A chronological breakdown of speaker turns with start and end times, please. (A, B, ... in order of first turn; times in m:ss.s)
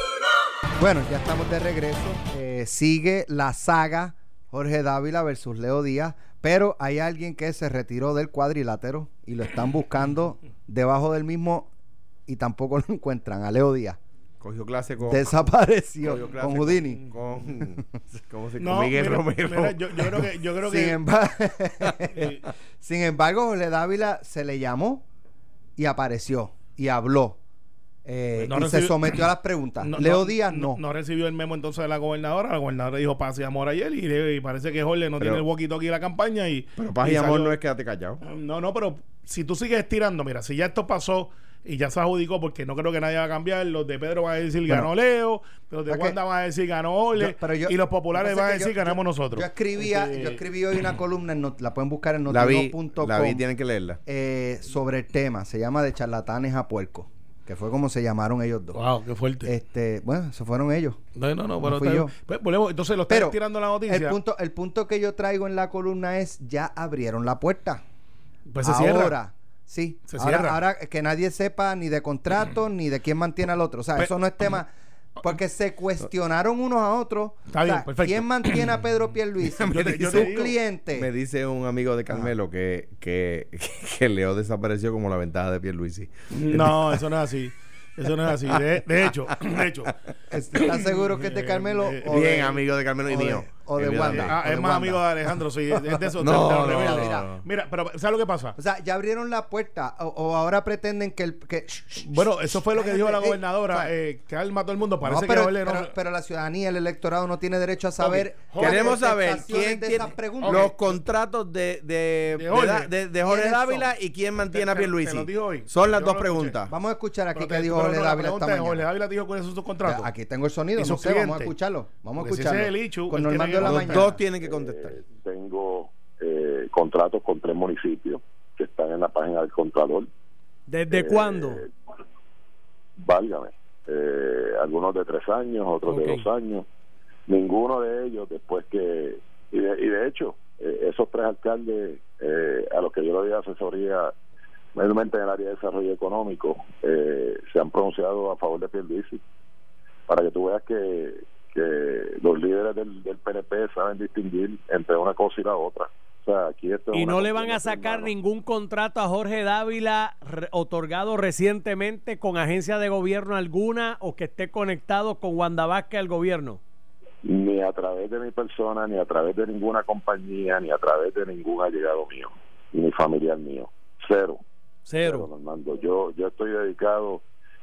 0:00.8-0:11.7 A
0:12.3-0:14.0 A
0:14.4-0:15.3 B
0:15.0-0:17.0 A
0:16.0-0:20.3 B
0:18.6-0:21.0 C
0:20.6-0:22.3 A
0:22.1-0:22.4 C
0:22.8-0:25.0 A
0:25.8-0:27.4 A
0:28.0-0:30.8 A
0:28.4-0:29.2 C
0:29.8-0:37.6 C
0:35.2-0:35.4 B
0:36.8-0:38.2 B
0:38.2-0:50.4 C
0:45.9-0:46.2 A
0:47.2-0:53.4 A
0:52.3-0:54.0 B
0:54.1-0:58.8 A
0:58.7-0:59.5 C
0:59.4-1:01.0 A
1:01.2-1:04.2 C
1:01.6-1:02.1 A
1:03.1-1:07.8 A
1:08.5-1:09.2 C
1:08.6-1:14.7 A
1:10.1-1:10.6 C
1:15.2-1:21.1 A
1:17.5-1:18.6 C
1:19.6-1:20.6 C
1:20.0-1:20.3 B
1:20.9-1:27.0 B
1:26.3-1:29.9 C
1:30.3-1:35.1 A
1:30.8-1:32.3 C
1:32.1-1:34.4 B
1:34.0-1:38.6 C
1:35.9-1:37.3 A
1:36.2-1:37.4 B
1:38.6-1:43.9 A
1:42.0-1:45.9 C
1:45.0-1:50.7 A
1:48.0-1:49.3 C
1:48.6-1:56.7 B
1:50.4-1:51.0 C
1:52.3-1:52.9 C
1:53.2-1:53.9 A
1:54.5-1:56.6 C
1:56.7-1:58.9 A
1:57.4-2:00.1 C
1:59.8-2:04.1 A
2:00.8-2:01.5 C
2:02.2-2:04.1 C
2:03.6-2:05.0 B
2:04.4-2:10.1 D
2:10.7-2:11.6 E
2:10.9-2:11.7 D
2:13.0-2:16.6 D
2:15.8-2:16.2 E
2:17.3-2:24.1 D
2:24.8-2:29.2 D
2:30.1-2:38.1 D
2:36.9-2:46.6 E
2:47.2-2:54.4 D
2:54.8-2:55.3 E
2:55.0-2:57.2 D